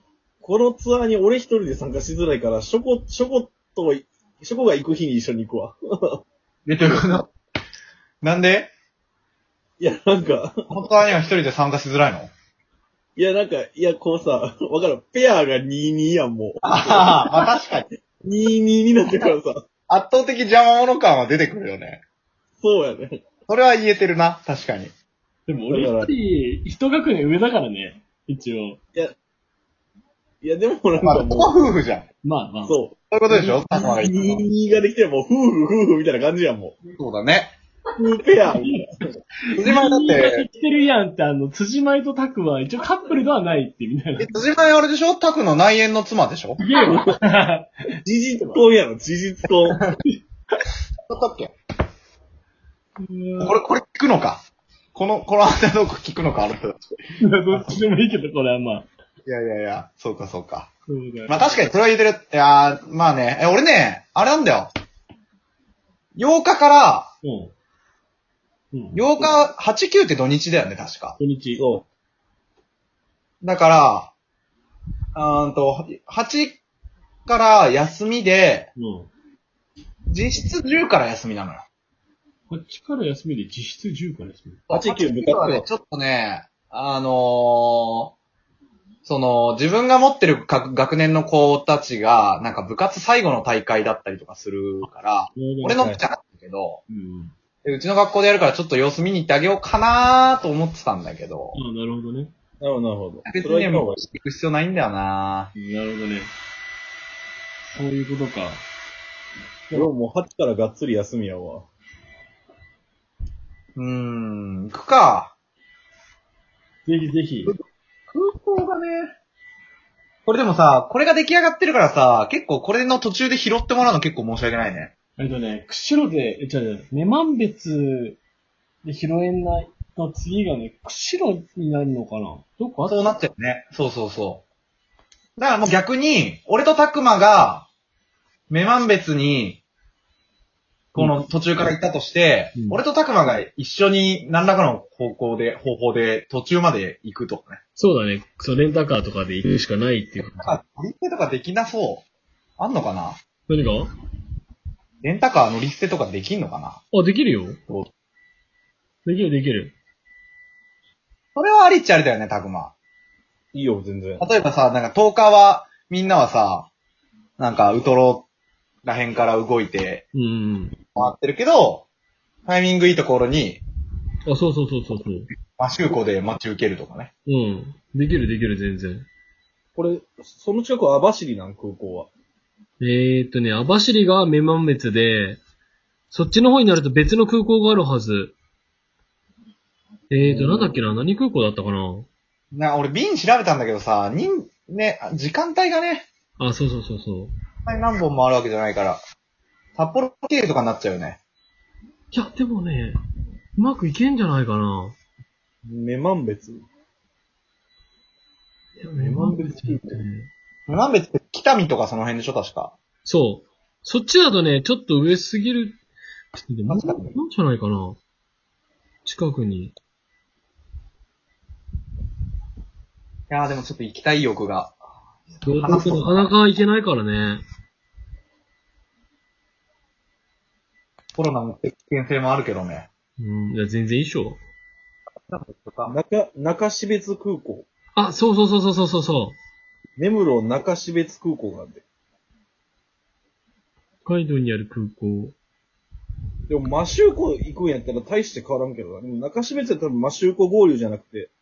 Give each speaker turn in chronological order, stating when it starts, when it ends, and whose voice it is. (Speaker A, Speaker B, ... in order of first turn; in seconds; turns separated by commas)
Speaker A: 0.4-6.2, Speaker B: 6.7-7.3, Speaker B: 8.2-8.7, Speaker A: 9.8-10.6, Speaker B: 10.7-12.3, Speaker A: 13.2-17.4, Speaker B: 16.6-17.9, Speaker A: 18.2-19.6, Speaker B: 19.9-22.0, Speaker A: 22.6-23.3, Speaker B: 23.5-24.9, Speaker C: 25.5-28.8, Speaker A: 25.7-26.1, Speaker A: 30.4-31.7, Speaker B: 31.0-32.1, Speaker C: 32.2-32.8, Speaker A: 32.6-36.8, Speaker B: 33.1-34.5, Speaker B: 36.9-37.5, Speaker A: 38.0-38.8, Speaker C: 39.5-44.3, Speaker B: 39.5-40.5, Speaker B: 44.2-46.6, Speaker C: 46.6-47.7, Speaker A: 46.9-47.2, Speaker A: 48.0-49.8, Speaker B: 51.1-51.5, Speaker C: 53.0-53.6, Speaker B: 53.4-54.4, Speaker B: 54.9-56.9, Speaker C: 57.2-58.9, Speaker B: 59.2-60.7, Speaker C: 60.9-61.7, Speaker B: 61.3-64.7, Speaker B: 66.2-67.1, Speaker C: 67.2-67.5, Speaker C: 68.7-69.0, Speaker B: 68.9-71.2, Speaker C: 71.2-71.6, Speaker A: 71.5-71.8, Speaker B: 73.4-74.1, Speaker B: 75.1-76.6, Speaker B: 77.2-78.7, Speaker C: 78.8-79.1, Speaker B: 80.1-81.6, Speaker C: 82.5-84.6, Speaker B: 84.7-88.1, Speaker A: 84.7-85.7, Speaker B: 89.0-96.8, Speaker C: 95.3-96.0, Speaker C: 96.9-97.3, Speaker B: 97.6-101.6, Speaker C: 101.5-102.3, Speaker A: 102.6-104.0, Speaker B: 103.2-105.5, Speaker C: 105.5-106.3, Speaker C: 107.6-108.6, Speaker A: 109.7-111.7, Speaker B: 113.8-115.3, Speaker C: 116.8-117.5, Speaker B: 118.1-119.1, Speaker B: 120.2-124.9, Speaker C: 125.2-128.2, Speaker C: 128.8-133.2, Speaker B: 132.8-134.4, Speaker B: 135.4-137.7, Speaker B: 138.5-139.6, Speaker C: 140.9-141.2, Speaker B: 140.9-147.6, Speaker C: 142.5-142.8, Speaker C: 147.8-150.5, Speaker B: 150.2-152.1, Speaker B: 152.6-153.2, Speaker C: 153.5-153.9, Speaker B: 155.0-156.8, Speaker C: 156.9-157.8, Speaker C: 159.0-159.7, Speaker B: 161.3-162.7, Speaker A: 163.5-164.2, Speaker B: 164.2-166.7, Speaker B: 167.4-168.3, Speaker B: 168.8-170.0, Speaker C: 170.1-170.8, Speaker B: 170.9-171.9, Speaker B: 172.4-173.6, Speaker C: 174.2-175.3, Speaker B: 175.5-177.1, Speaker C: 177.2-179.1, Speaker A: 179.8-182.1, Speaker C: 182.8-185.4, Speaker C: 186.1-188.3, Speaker C: 190.1-192.1, Speaker A: 190.2-190.7, Speaker B: 192.5-196.1, Speaker C: 196.4-197.3, Speaker B: 197.7-199.0, Speaker B: 199.8-201.2, Speaker C: 202.1-202.9, Speaker C: 203.6-204.9, Speaker A: 205.6-206.6, Speaker C: 208.8-210.3, Speaker A: 209.0-210.0, Speaker B: 210.7-212.7, Speaker C: 213.0-215.8, Speaker C: 216.3-218.0, Speaker B: 216.7-217.2, Speaker C: 219.0-219.7, Speaker B: 223.3-224.8, Speaker B: 225.3-226.2, Speaker C: 225.4-227.4, Speaker B: 231.2-232.9, Speaker C: 233.2-234.4, Speaker B: 235.3-236.0, Speaker A: 235.9-237.7, Speaker C: 237.9-239.4, Speaker A: 240.0-241.8, Speaker C: 244.0-245.3, Speaker A: 246.5-251.3